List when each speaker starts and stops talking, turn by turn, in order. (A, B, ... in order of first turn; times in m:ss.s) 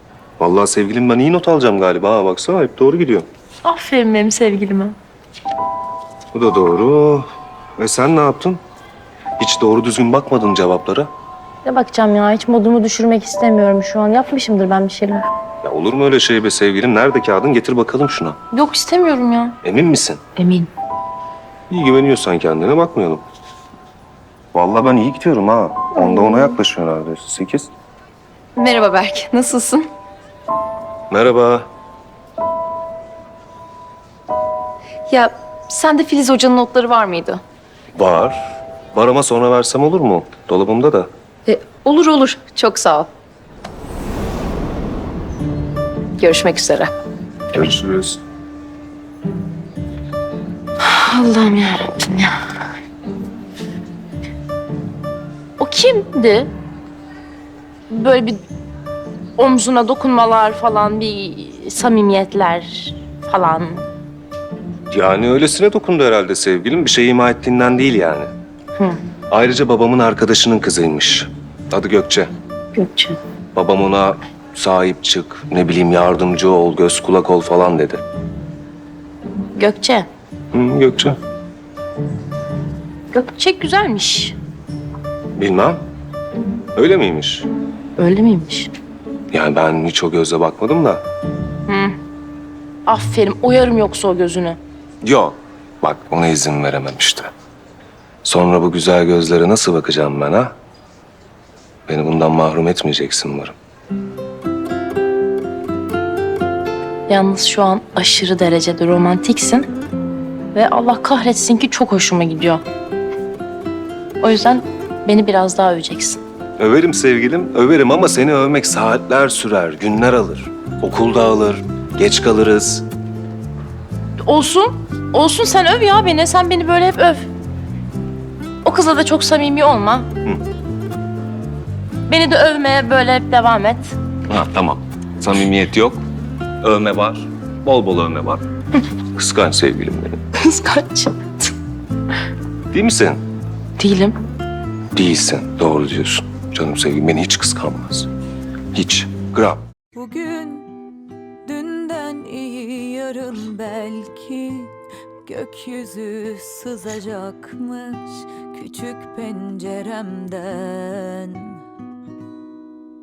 0:00.4-0:03.3 A
0:03.6-0:05.0 B
0:06.3-0:08.6 A
0:09.4-0:11.1 A
0:11.7-0:15.3 B
0:15.6-0:18.4 A
0:18.5-0:19.6 B
0:19.6-0:20.2 A
0:20.4-0:20.7 B
0:21.7-0:23.2 A
0:24.5-0:27.7 A
0:26.0-0:26.5 C
0:28.6-0:29.9 C
0:31.1-0:31.7 A
0:35.1-0:37.4 C
0:37.9-0:41.1 A
0:41.4-0:43.1 C
0:46.2-0:46.9 C
0:47.5-0:48.2 A
0:50.8-0:52.4 B
0:55.6-0:56.5 B
0:57.9-0:58.4 B
0:59.4-1:03.8 B
1:04.9-1:08.3 A
1:09.3-1:12.3 A
1:12.7-1:13.2 B
1:13.5-1:18.0 A
1:19.5-1:20.1 B
1:20.5-1:21.2 A
1:23.1-1:24.4 B
1:25.3-1:25.8 A
1:26.7-1:27.5 A
1:28.0-1:28.7 B
1:29.3-1:31.0 A
1:31.7-1:32.0 B
1:32.8-1:34.6 B
1:35.0-1:37.3 A
1:38.2-1:40.5 A
1:41.9-1:43.6 A
1:47.1-1:49.7 B
1:50.5-1:52.6 B
1:54.2-1:56.2 B
1:56.6-2:02.8 A
2:04.2-2:07.3 B
2:08.6-2:10.1 B
2:12.1-2:13.9 B
2:14.3-2:16.0 A
2:16.6-2:18.4 A
2:19.1-2:20.2 A
2:20.4-2:21.5 B
2:22.7-2:23.2 A
2:23.8-2:24.2 B
2:24.9-2:28.1 A
2:28.7-2:29.6 A
2:29.9-2:30.8 D
2:31.4-2:34.7 D
2:35.2-2:41.6 D